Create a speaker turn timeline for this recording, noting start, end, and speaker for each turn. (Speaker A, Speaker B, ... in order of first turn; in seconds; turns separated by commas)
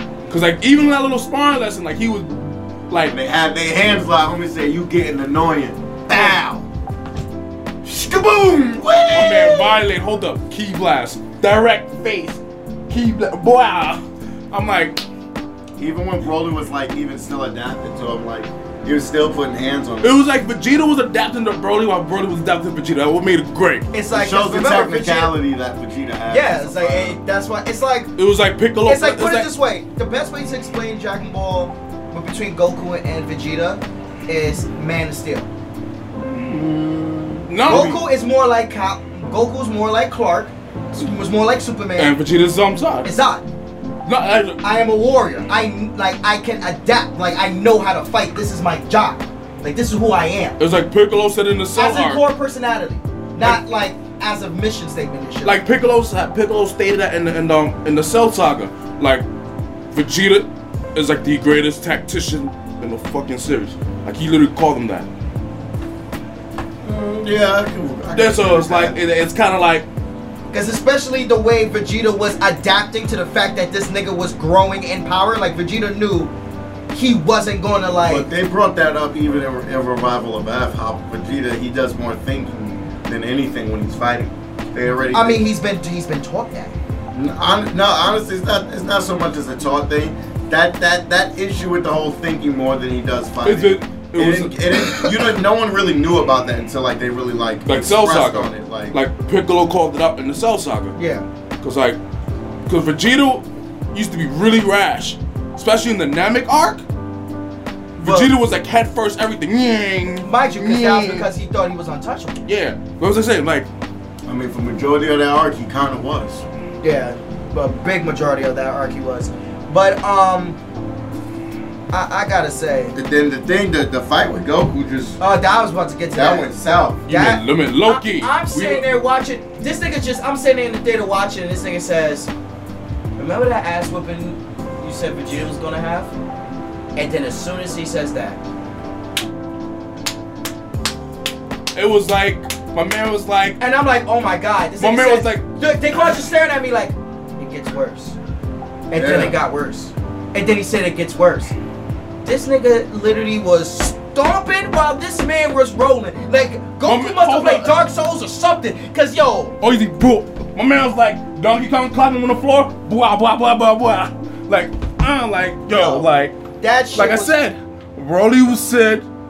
Speaker A: 0.3-3.2, Speaker B: 3.1-6.7, Speaker B: 7.8-9.8, Speaker A: 9.1-15.0, Speaker B: 15.8-20.2, Speaker A: 20.0-23.9, Speaker C: 23.9-25.3, Speaker B: 24.1-27.2, Speaker C: 26.3-28.1, Speaker A: 28.2-29.5, Speaker C: 28.9-35.5, Speaker B: 36.2-38.0, Speaker A: 37.5-38.0, Speaker C: 37.7-42.2, Speaker A: 42.0-43.1, Speaker C: 43.0-43.5, Speaker A: 44.1-44.6, Speaker C: 44.6-50.6, Speaker A: 50.6-52.2, Speaker C: 51.8-55.6, Speaker A: 55.4-59.2, Speaker A: 59.9-65.1, Speaker B: 66.8-69.0, Speaker A: 68.1-69.9, Speaker C: 70.5-76.3, Speaker C: 76.9-78.3, Speaker B: 78.1-85.4, Speaker C: 85.1-86.8, Speaker B: 87.1-99.0, Speaker A: 93.4-95.2, Speaker A: 97.7-101.0, Speaker C: 101.0-101.3, Speaker A: 101.6-102.0, Speaker A: 102.7-106.8, Speaker A: 108.0-111.3, Speaker C: 108.0-108.3, Speaker C: 110.2-112.4, Speaker A: 112.5-113.7, Speaker B: 114.3-116.4, Speaker C: 116.8-120.6, Speaker C: 121.9-123.0, Speaker B: 123.0-125.2, Speaker C: 125.2-126.5, Speaker B: 126.2-127.0, Speaker A: 127.1-128.8, Speaker C: 127.1-132.3, Speaker C: 133.2-136.1, Speaker C: 137.0-138.4, Speaker A: 141.7-143.6, Speaker C: 143.6-148.2, Speaker A: 144.8-145.5, Speaker C: 148.9-151.5, Speaker B: 148.9-149.4, Speaker C: 152.2-159.6, Speaker A: 156.8-157.8, Speaker A: 159.6-166.4, Speaker C: 165.7-167.3, Speaker A: 167.0-169.1